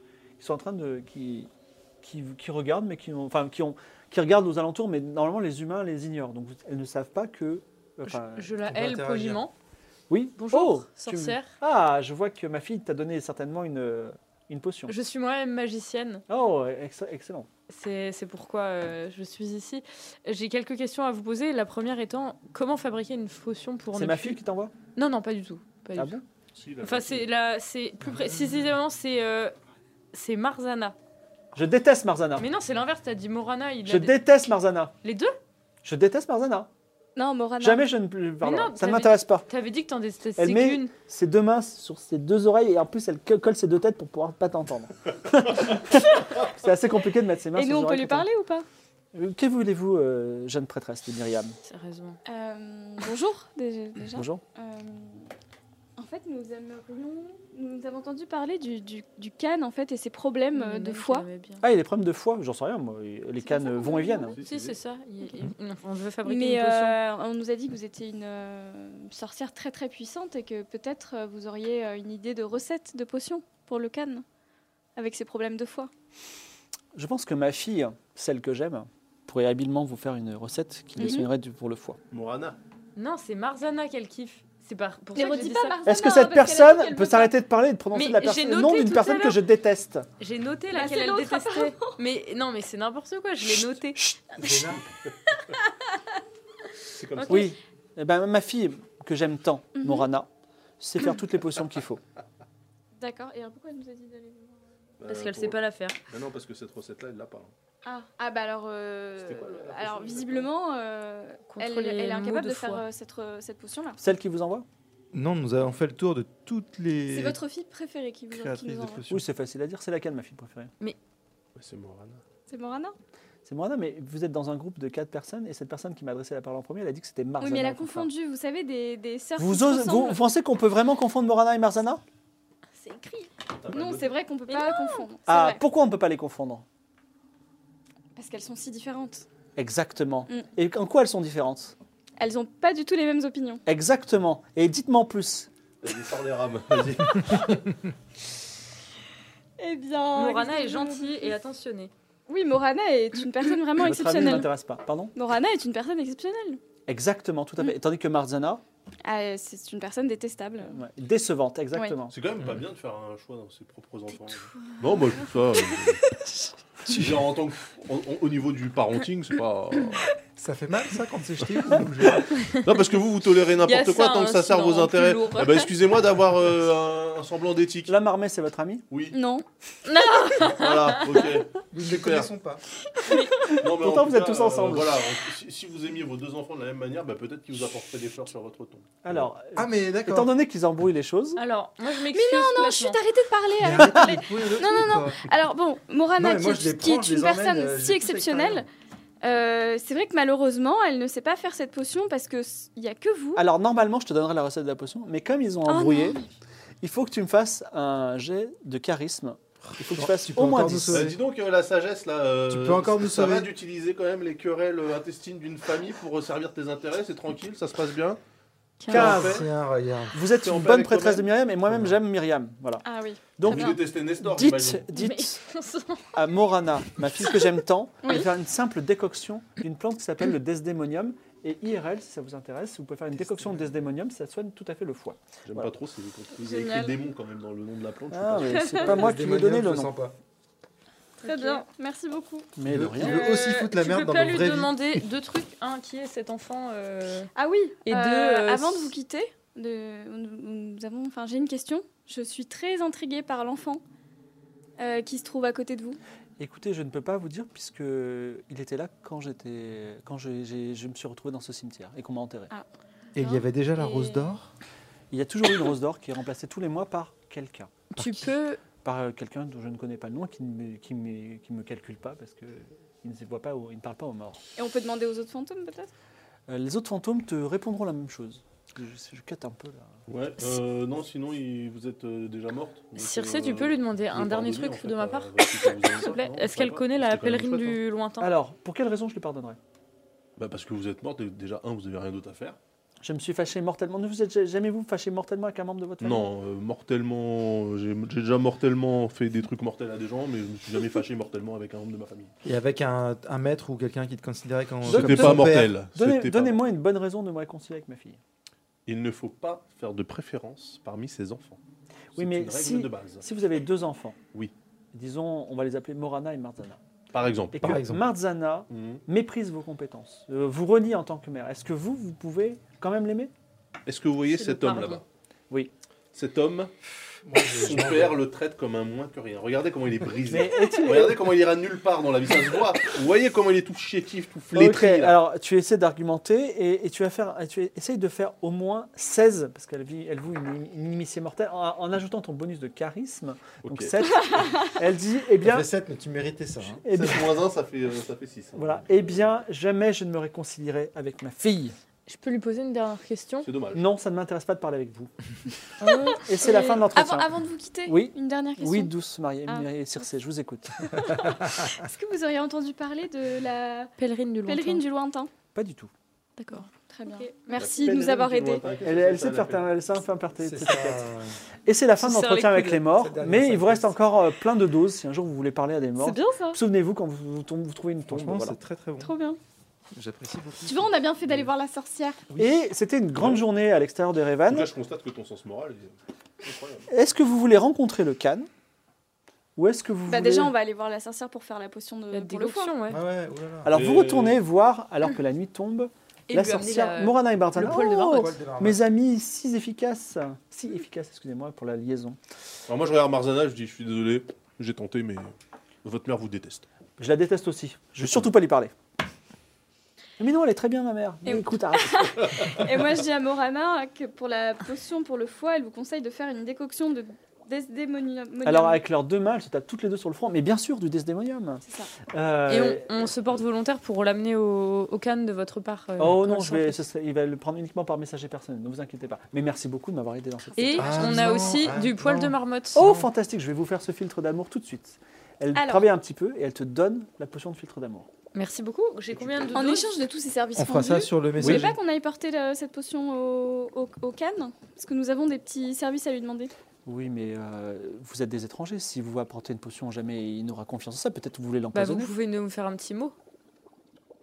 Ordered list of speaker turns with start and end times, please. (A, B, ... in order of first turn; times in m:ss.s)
0:00.4-0:01.5 A
0:02.0-0:08.5 A
0:08.0-0:09.5 B
0:08.6-0:09.4 C
0:10.1-0:14.9 A
0:10.4-0:11.5 B
0:14.9-0:16.2 B
0:16.3-0:17.5 A
0:17.7-0:24.4 B
0:23.9-0:24.7 A
0:24.9-0:26.2 B
0:26.0-0:26.2 A
0:26.5-0:27.3 D
0:26.8-0:29.5 B
0:30.1-0:31.0 B
0:31.5-0:32.4 A
0:32.4-0:34.3 B
0:33.8-0:34.9 A
0:35.0-0:35.3 B
0:35.8-0:36.7 A
0:37.2-0:37.9 E
0:37.6-0:39.5 A
0:38.4-0:40.9 B
0:40.4-0:48.3 A
0:47.5-0:48.6 E
0:49.1-0:51.6 A
0:51.6-0:52.2 B
0:52.2-0:55.3 E
0:54.1-0:54.4 A
0:56.0-1:01.2 E
1:00.5-1:01.6 B
1:01.6-1:04.3 A
1:03.4-1:04.4 E
1:04.3-1:04.8 D
1:04.4-1:07.0 B
1:06.2-1:14.2 E
1:15.0-1:15.9 E
1:16.9-1:22.0 A
1:21.0-1:21.3 E
1:22.1-1:22.6 D
1:23.0-1:25.8 B
1:25.1-1:27.3 E
1:25.8-1:30.1 A
1:27.9-1:29.4 B
1:30.2-1:34.1 B
1:30.7-1:32.0 E
1:34.4-1:34.8 C
1:36.9-1:37.5 D
1:37.2-1:37.5 B
1:37.3-1:40.3 A
1:39.8-1:40.1 E
1:40.8-1:42.0 A
1:43.0-1:44.6 E
1:45.0-1:47.5 D
1:45.1-1:46.0 B
1:47.8-1:54.0 E
1:49.2-1:50.5 D
1:51.5-1:52.8 B
1:54.0-1:54.6 A
1:55.1-1:57.4 C
1:57.1-1:59.1 E
1:58.3-1:59.2 C
1:59.1-2:00.7 A
2:01.6-2:02.2 D
2:02.5-2:02.9 E
2:03.4-2:08.1 A
2:07.4-2:10.2 E
2:09.4-2:12.0 A
2:12.8-2:15.6 E
2:13.6-2:14.2 D
2:15.2-2:16.6 A
2:18.2-2:19.3 E
2:19.6-2:21.7 A
2:22.2-2:23.6 E
2:23.6-2:25.5 A
2:25.8-2:27.8 D
2:29.6-2:31.3 E
2:30.1-2:31.9 B
2:32.3-2:34.5 E
2:33.8-2:35.1 A
2:35.1-2:36.6 E
2:36.9-2:38.6 A
2:39.0-2:40.8 E
2:40.7-2:42.1 A
2:41.7-2:42.0 E
2:42.1-2:46.0 D
2:44.6-2:45.9 E
2:46.9-2:50.0 D
2:50.4-2:52.3 C
2:51.4-2:57.9 D
2:53.6-2:55.7 B
2:57.9-2:58.8 A
2:58.9-2:59.2 D
2:59.1-2:59.4 E
2:59.8-3:01.3 B
3:00.4-3:02.3 D
3:01.7-3:02.6 C
3:03.0-3:03.4 B
3:03.4-3:05.0 A
3:03.6-3:09.0 D
3:09.0-3:11.4 A
3:09.5-3:10.3 C
3:11.4-3:13.0 B
3:12.1-3:18.7 E
3:13.6-3:15.2 C
3:16.2-3:18.6 C
3:19.2-3:23.4 E
3:23.4-3:26.2 A
3:25.6-3:26.3 E
3:26.8-3:31.1 A
3:29.7-3:31.2 C
3:30.9-3:38.2 D
3:32.5-3:33.5 C
3:38.9-3:39.5 A
3:38.9-3:39.5 D
3:38.9-3:40.1 C
3:40.1-3:42.8 A
3:40.3-3:41.3 D
3:42.8-3:43.8 E
3:43.4-3:45.4 A
3:43.4-3:44.9 D
3:44.9-3:46.2 B
3:46.1-3:55.7 A
3:48.0-3:48.3 E
3:53.3-3:53.7 C
3:55.5-3:59.1 D
3:56.3-3:57.0 E
3:58.1-3:59.9 A
3:58.5-3:58.8 E
3:58.9-4:00.1 C
4:01.2-4:01.6 B
4:01.2-4:02.5 E
4:02.6-4:03.2 A
4:02.6-4:04.8 C
4:03.0-4:07.3 B
4:07.3-4:13.8 E
4:07.8-4:08.9 B
4:14.8-4:16.0 E
4:16.4-4:22.5 A
4:22.5-4:24.3 E
4:23.1-4:24.5 C
4:25.1-4:27.7 A
4:27.9-4:28.6 B
4:28.0-4:28.3 C
4:28.8-4:34.4 A
4:34.6-4:35.9 E
4:36.5-4:40.0 A
4:40.1-4:47.8 D
4:43.0-4:48.3 B
4:48.2-4:49.6 A
4:50.4-4:52.6 D
4:53.0-4:56.3 A
4:56.0-5:02.3 D
5:02.4-5:05.7 C
5:04.8-5:08.2 A
5:04.9-5:06.6 D
5:08.9-5:11.6 D
5:12.1-5:14.2 A
5:12.2-5:13.3 D
5:14.9-5:16.8 A
5:17.1-5:17.8 D
5:17.5-5:23.3 A
5:17.6-5:18.0 C
5:18.7-5:19.0 D
5:23.8-5:25.0 D
5:24.3-5:25.0 B
5:26.1-5:26.7 D
5:27.2-5:28.2 C
5:27.5-5:35.2 D
5:30.2-5:31.2 A
5:30.6-5:31.1 E
5:34.5-5:45.7 A
5:43.6-5:44.4 D
5:45.4-5:46.8 C
5:46.8-5:47.4 A
5:46.9-5:49.3 D
5:48.5-5:51.8 A
5:52.1-5:53.5 B
5:53.4-5:53.8 D
5:53.7-5:55.1 A
5:55.8-5:58.9 E
5:55.8-5:56.1 B
5:56.1-5:57.3 A
5:57.8-6:01.3 A
6:01.1-6:01.7 C
6:01.7-6:03.9 E
6:04.0-6:04.8 B
6:04.4-6:05.3 E
6:05.5-6:05.9 A
6:06.4-6:08.7 E
6:07.1-6:07.8 B
6:07.5-6:09.7 D
6:08.8-6:11.1 A
6:10.4-6:11.4 C
6:11.6-6:18.6 A
6:12.0-6:12.9 B
6:12.9-6:14.0 C
6:16.0-6:16.6 E
6:18.1-6:19.1 C
6:19.0-6:19.4 E
6:19.9-6:21.3 C
6:20.6-6:22.3 E
6:22.4-6:24.7 A
6:23.2-6:23.4 D
6:24.5-6:26.9 D
6:26.9-6:28.5 A
6:29.6-6:30.5 A
6:30.1-6:32.8 E
6:32.1-6:33.0 B
6:32.9-6:33.7 C
6:33.6-6:42.2 A
6:33.7-6:34.4 D
6:36.3-6:38.3 B
6:37.5-6:38.8 C
6:42.7-6:46.6 D
6:47.0-6:48.7 A
6:50.2-6:52.1 A
6:51.2-6:58.8 E
6:58.4-7:02.9 A
7:01.6-7:01.9 E
7:02.5-7:06.8 B
7:06.0-7:11.7 A
7:10.6-7:13.0 B
7:10.8-7:13.1 C
7:12.7-7:18.1 A
7:15.5-7:15.9 E
7:18.3-7:20.0 B
7:19.2-7:19.5 D
7:19.5-7:26.5 E
7:20.6-7:21.8 C
7:21.4-7:21.7 A
7:26.8-7:32.1 A
7:31.7-7:33.1 B